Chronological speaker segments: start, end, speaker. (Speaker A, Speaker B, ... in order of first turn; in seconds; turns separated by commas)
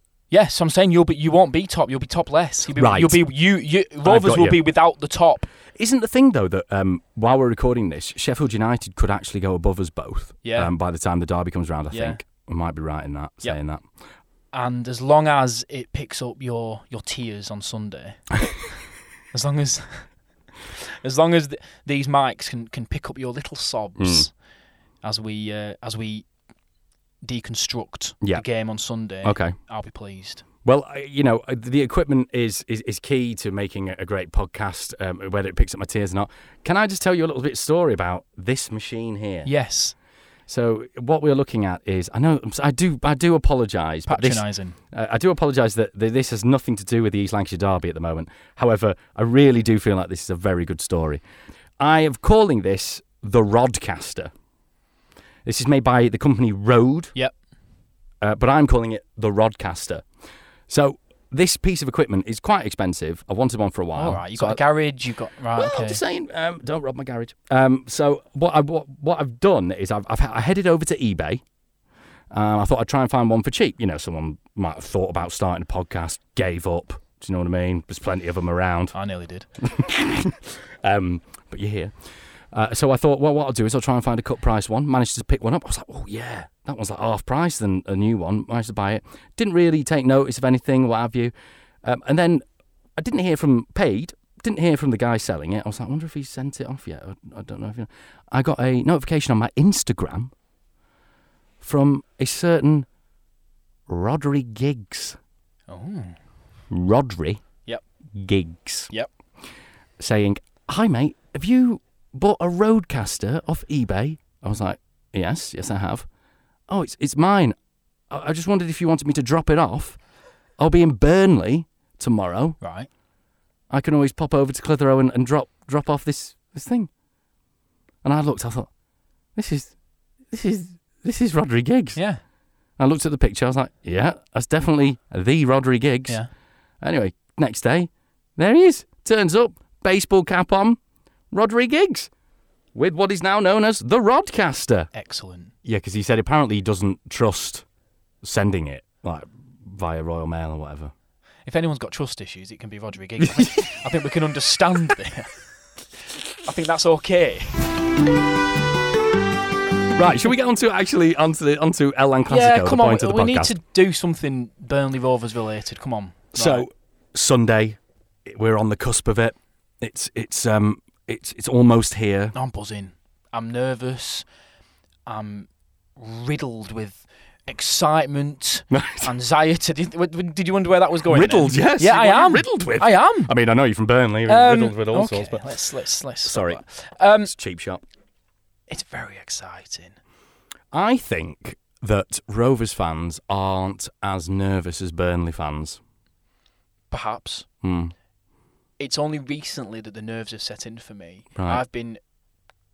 Speaker A: 0.3-5.5, Speaker B: 2.8-3.2, Speaker B: 4.0-4.6, Speaker B: 5.7-13.8, Speaker A: 10.4-10.7, Speaker A: 11.9-12.2, Speaker A: 14.5-18.5, Speaker A: 19.3-20.1, Speaker A: 21.0-24.3, Speaker B: 24.0-24.3, Speaker A: 25.0-26.3, Speaker A: 27.2-30.4, Speaker B: 29.2-29.6, Speaker B: 30.6-39.5, Speaker A: 39.5-40.0, Speaker B: 40.5-51.2, Speaker A: 44.1-44.8, Speaker B: 51.8-54.3, Speaker B: 55.5-57.1, Speaker B: 58.2-60.1, Speaker B: 60.7-64.6, Speaker A: 64.0-66.0, Speaker B: 65.6-71.4, Speaker B: 72.3-79.0, Speaker A: 78.9-79.5, Speaker B: 79.6-81.9, Speaker B: 82.5-92.5, Speaker B: 93.0-100.3, Speaker B: 101.6-102.9, Speaker B: 103.9-105.2, Speaker A: 105.7-106.2, Speaker B: 106.7-107.4, Speaker B: 108.1-108.9, Speaker B: 110.0-116.1, Speaker B: 116.7-117.6, Speaker B: 118.1-120.0, Speaker B: 120.6-122.6, Speaker A: 122.6-122.9, Speaker B: 123.7-126.9, Speaker B: 128.0-128.7, Speaker B: 129.4-129.7, Speaker B: 130.3-132.0, Speaker A: 132.0-132.2, Speaker B: 132.8-136.2, Speaker B: 136.8-140.8, Speaker B: 141.3-142.1, Speaker B: 142.8-144.9, Speaker A: 144.9-145.5, Speaker B: 145.7-147.7, Speaker B: 148.2-150.9, Speaker A: 151.5-155.4, Speaker B: 153.2-153.7, Speaker A: 156.4-157.8, Speaker B: 159.9-163.5, Speaker A: 162.3-166.7, Speaker B: 166.3-172.3, Speaker A: 172.3-174.3, Speaker A: 175.1-183.3, Speaker B: 178.7-179.1, Speaker B: 181.1-185.5, Speaker A: 184.3-187.3, Speaker B: 186.2-186.6, Speaker B: 187.2-187.8, Speaker A: 188.7-190.0, Speaker B: 190.7-195.8, Speaker A: 196.9-197.5, Speaker B: 197.6-197.9, Speaker A: 198.8-202.0, Speaker B: 201.4-201.6